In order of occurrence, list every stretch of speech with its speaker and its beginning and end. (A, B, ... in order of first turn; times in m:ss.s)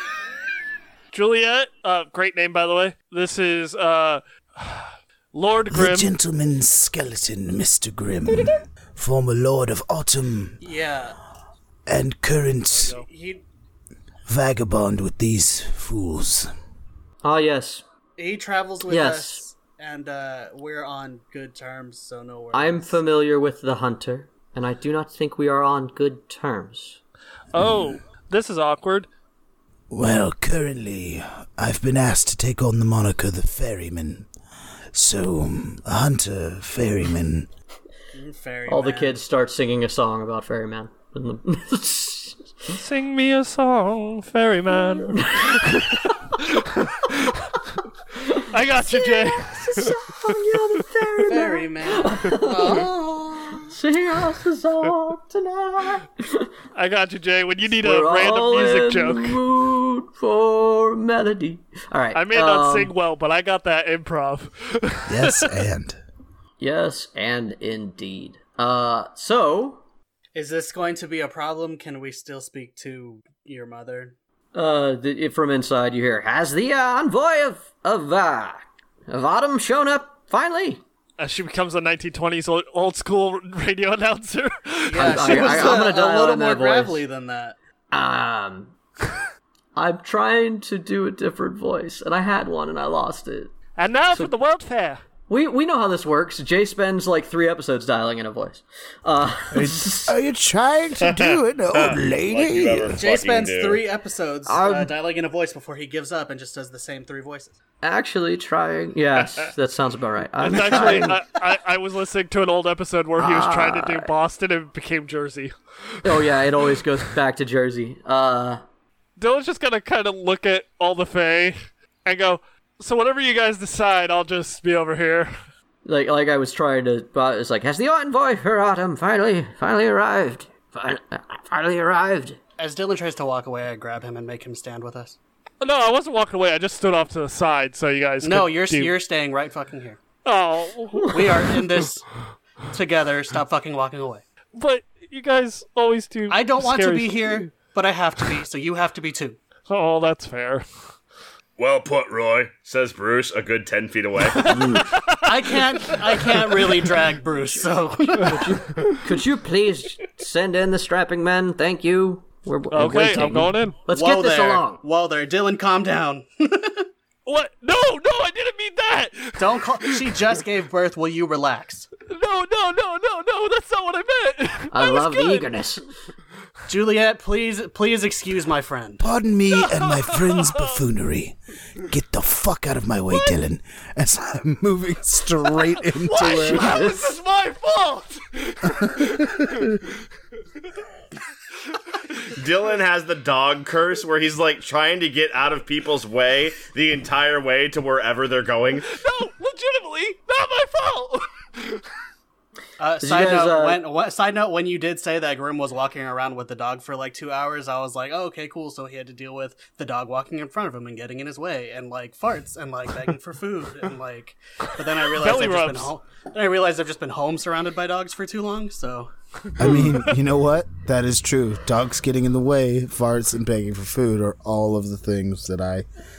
0:01.1-0:06.1 A
0:05.7-0:10.6 B
0:08.3-0:08.6 C
0:10.6-0:11.2 D
0:11.9-0:13.0 B
0:12.8-0:13.4 D
0:14.3-0:16.5 B
0:17.2-0:17.8 C
0:18.2-0:23.0 D
0:18.9-0:19.4 C
0:22.5-0:27.0 C
0:27.5-0:29.1 A
0:29.9-0:34.3 B
0:34.9-0:37.5 B
0:38.1-0:39.2 D
0:38.7-0:42.5 C
0:42.7-0:47.5 A
0:45.0-0:46.4 C
0:48.2-0:56.5 C
0:48.3-0:51.2 A
0:51.3-0:53.6 D
0:56.7-0:59.4 A
0:57.8-1:02.9 C
1:02.1-1:05.5 A
1:05.1-1:06.0 B
1:06.6-1:09.8 C
1:10.3-1:14.2 D
1:14.5-1:20.8 C
1:21.2-1:25.7 A
1:24.9-1:27.6 D
1:25.0-1:27.0 C
1:27.9-1:28.7 C
1:29.8-1:33.5 C
1:33.8-1:35.0 A
1:35.3-1:40.1 C
1:39.5-1:43.0 B
1:41.0-1:43.8 E
1:43.0-1:47.6 D
1:44.4-1:44.9 C
1:47.8-1:51.2 C
1:50.4-1:57.0 A
1:50.5-1:51.1 D
1:53.2-1:54.1 C
1:56.0-1:58.6 C
1:59.2-2:05.3 A
2:05.8-2:12.4 C
2:12.6-2:15.2 D
2:15.6-2:18.9 A
2:18.2-2:20.0 D
2:20.2-2:21.4 A
2:21.1-2:22.1 D
2:22.7-2:24.2 D
2:24.5-2:27.5 A
2:26.3-2:29.4 D
2:29.7-2:30.6 A
2:31.6-2:34.8 E
2:34.4-2:38.6 D
2:34.5-2:34.8 C
2:34.7-2:36.7 A
2:38.2-2:39.0 A
2:38.3-2:44.8 C
2:42.7-2:43.8 A
2:43.9-2:46.9 D
2:47.3-2:50.2 A
2:49.4-2:51.9 D
2:52.1-2:55.6 A
2:54.7-2:55.8 C
2:56.7-2:59.0 D
2:59.0-3:06.7 B
2:59.7-3:00.7 A
3:05.6-3:09.9 A
3:06.2-3:07.2 C
3:08.8-3:09.7 B
3:11.7-3:12.1 A
3:12.3-3:18.9 E
3:18.8-3:21.8 A
3:22.8-3:39.1 D
3:23.0-3:23.8 C
3:35.1-3:35.9 A
3:39.6-3:45.9 B